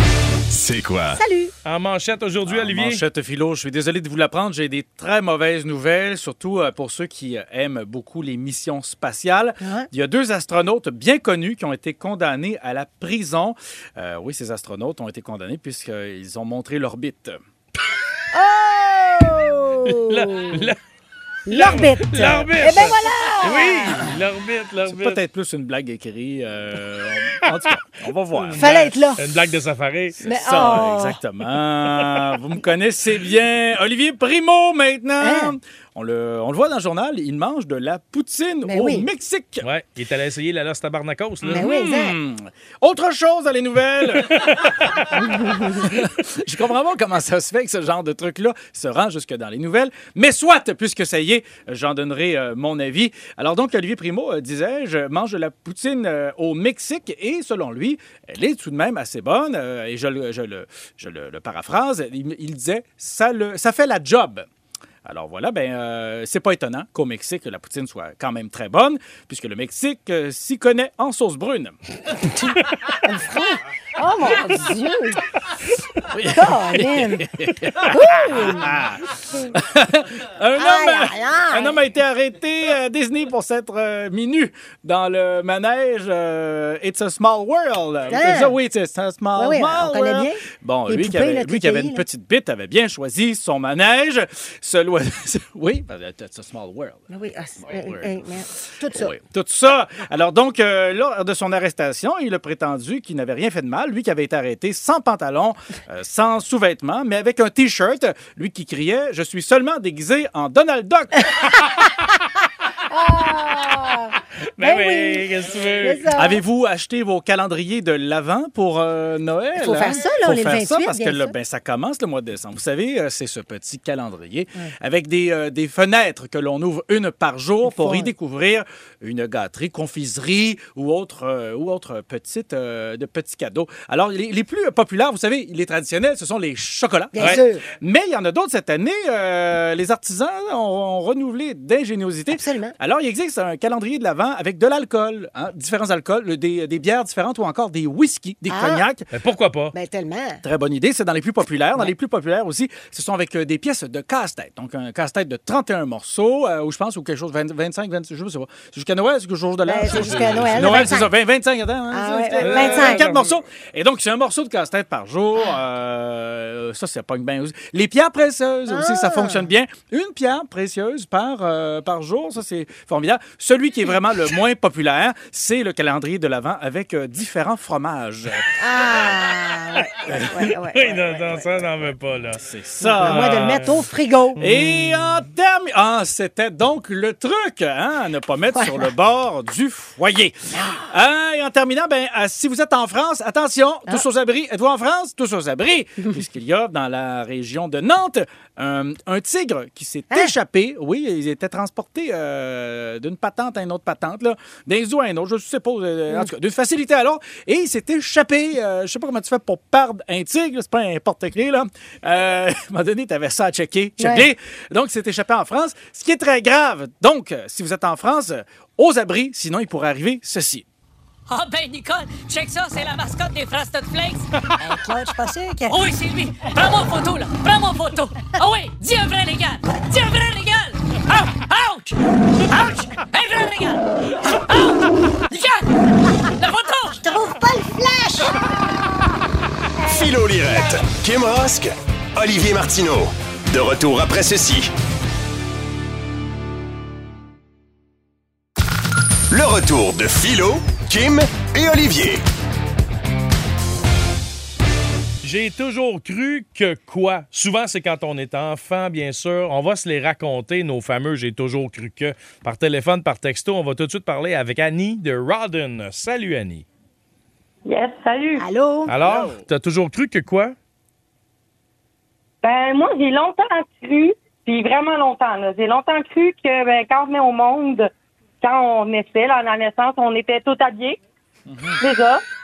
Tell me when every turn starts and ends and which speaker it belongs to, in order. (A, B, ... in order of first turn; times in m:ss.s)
0:00.5-0:01.2 A
0:01.2-0:01.5 B
0:01.6-0:03.0 C
0:02.5-0:17.4 D
0:09.6-0:09.9 B
0:18.3-0:20.7 B
0:19.8-0:20.8 C
0:21.5-0:24.1 B
0:21.5-0:25.2 C
0:24.9-0:28.7 D
0:28.3-0:30.8 C
0:28.6-0:29.2 B
0:30.2-0:31.2 B
0:30.2-0:39.6 D
0:35.2-0:35.5 B
0:38.6-0:39.1 B
0:39.6-0:41.7 C
0:41.4-1:04.5 D
0:41.5-0:42.2 B
0:44.2-0:44.7 C
0:45.2-0:45.9 B
1:05.0-1:11.8 D
1:13.0-1:15.2 B
1:16.1-1:37.1 D
1:16.3-1:17.2 B
1:17.8-1:18.8 B
1:20.6-1:21.8 B
1:28.1-1:28.6 B
1:29.4-1:32.0 B
1:37.1-1:39.1 B
1:37.6-1:38.1 D
1:38.8-1:51.3 D
1:52.9-1:55.3 B
1:54.6-1:56.1 C
1:55.8-1:56.4 B
1:56.1-2:29.1 D
1:59.6-2:01.3 B
2:07.6-2:08.1 B
2:17.1-2:17.7 B
2:22.3-2:22.8 B
2:28.5-2:28.8 B
2:29.1-2:29.7 C
2:29.7-2:30.4 B
2:30.4-2:59.2 D
2:39.6-2:41.1 B
2:39.9-2:40.9 C
2:41.9-2:43.1 B
2:42.4-2:43.3 C
2:48.7-2:49.5 B
2:58.6-3:01.7 B
3:00.1-3:00.4 D
3:00.4-3:02.4 C
3:02.4-3:03.5 D
3:02.8-3:04.4 B
3:03.0-3:03.8 C
3:04.4-3:05.2 C
3:04.4-3:10.4 D
3:08.5-3:08.9 B
3:10.5-3:10.9 B
3:10.9-3:40.6 D
3:34.0-3:34.2 B
3:41.3-3:44.3 E
3:44.6-3:45.8 B
3:45.7-3:52.0 E
3:52.5-3:55.7 E
3:56.2-3:57.0 E
3:57.0-3:58.4 B
3:59.9-4:04.7 A
4:09.3-4:12.2 A
4:15.2-4:26.6 C
4:27.6-4:28.4 F
4:28.4-4:28.9 B
4:28.9-4:30.6 C
4:29.0-4:29.4 D
4:32.4-4:37.9 F
4:38.4-4:41.0 F
4:41.5-4:41.8 D
4:41.8-4:42.2 F